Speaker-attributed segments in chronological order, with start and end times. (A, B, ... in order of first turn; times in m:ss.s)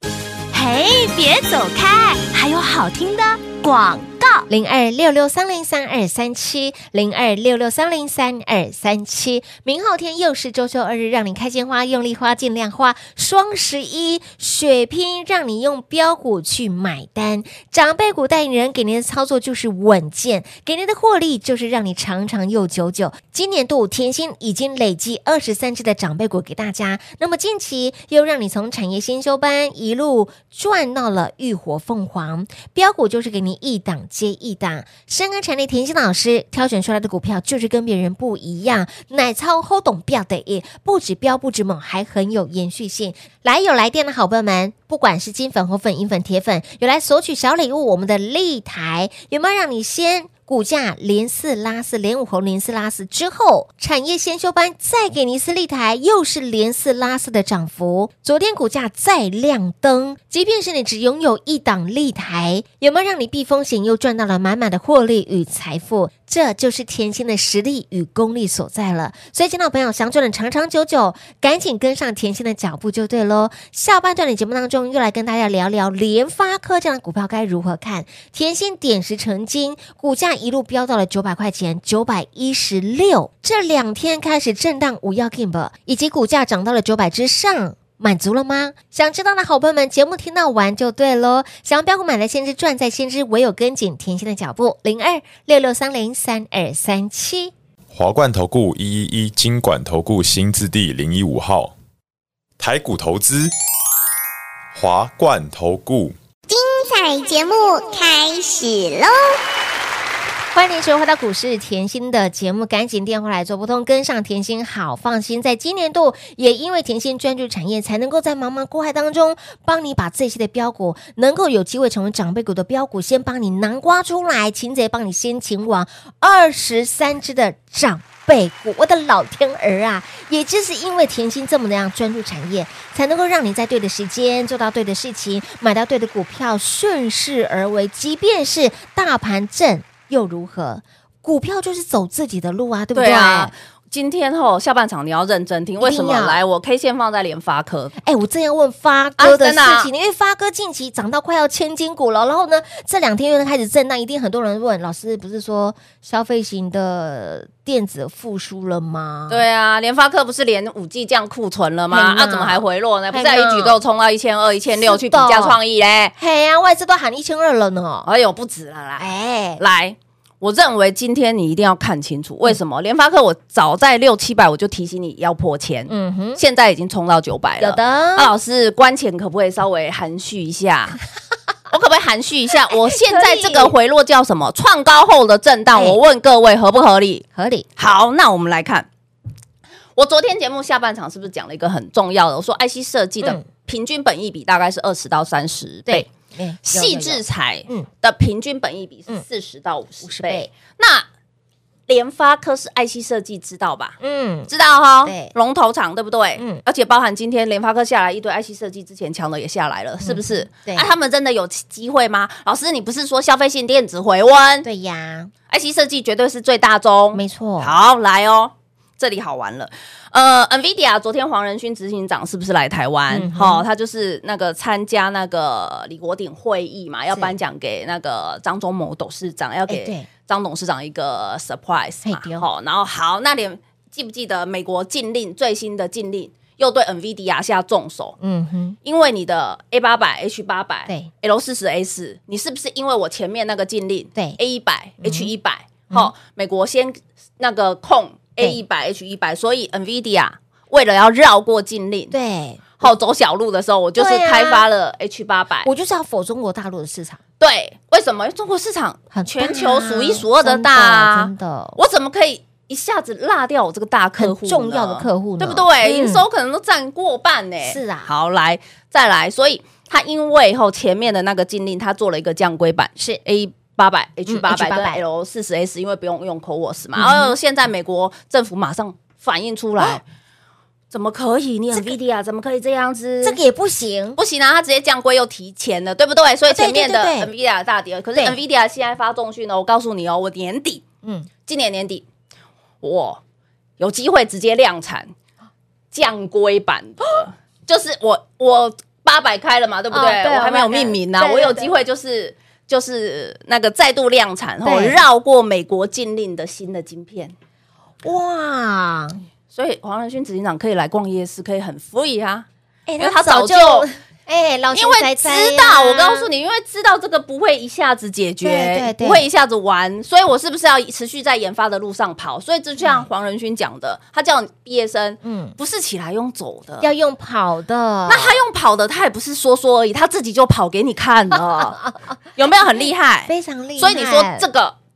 0:00.5-0:04.5 A
0:04.5-1:37.5 B
1:37.9-1:41.7 C
1:42.6-1:43.5 C
1:44.7-1:46.2 C
1:46.5-1:49.3 D
1:50.5-2:23.5 B
2:22.9-2:27.9 E
2:25.8-2:26.4 B
2:28.0-2:39.4 B
2:29.2-2:29.9 E
2:39.3-2:46.1 E
2:41.9-2:43.8 B
2:44.7-2:45.6 B
2:46.2-2:48.1 B
2:48.0-3:01.0 E
2:49.0-2:49.6 B
2:55.9-2:56.4 B
2:57.6-2:58.3 B
3:01.7-3:07.2 E
3:02.7-3:03.7 B
3:05.7-3:06.0 B
3:07.3-3:07.7 B
3:07.8-3:08.9 E
3:10.0-3:16.1 E
3:15.9-3:17.9 B
3:16.6-3:21.1 E
3:20.0-3:20.5 B
3:21.9-3:24.0 E
3:24.0-3:24.5 B
3:24.5-3:34.7 E
3:25.0-3:25.3 B
3:26.4-3:26.6 B
3:30.0-3:30.9 B
3:34.6-3:35.3 B
3:35.5-3:58.2 E
3:37.1-3:37.7 B
3:43.1-3:43.6 B
3:49.7-3:50.1 B
3:52.0-3:52.4 B
3:58.2-3:58.8 B
3:58.8-4:12.1 E
4:05.0-4:05.3 B
4:12.1-4:12.9 B
4:12.8-4:15.7 E
4:14.0-4:14.6 B
4:15.6-4:17.2 B
4:17.4-4:40.0 E
4:19.1-4:21.8 B
4:24.2-4:26.2 B
4:27.6-4:28.1 B
4:33.0-4:33.2 B
4:34.3-4:35.0 B
4:37.0-4:37.3 B
4:40.9-4:43.4 E
4:43.2-4:44.2 B
4:44.2-4:50.8 E
4:46.5-4:47.3 B
4:51.0-4:51.3 B
4:51.4-4:52.0 E
4:52.8-4:53.2 E
4:53.8-4:55.1 E
4:55.9-5:07.3 E
4:59.9-5:01.7 B
5:04.6-5:05.0 B
5:08.0-5:09.2 B
5:09.5-5:12.5 E
5:12.9-5:16.3 B
5:13.0-5:13.9 E
5:14.7-5:26.9 E
5:18.4-5:19.2 B
5:22.8-5:23.1 B
5:25.2-5:25.6 B
5:26.8-5:28.4 B
5:28.1-5:31.8 E
5:31.3-5:32.1 B
5:32.3-5:34.7 E
5:32.8-5:34.5 B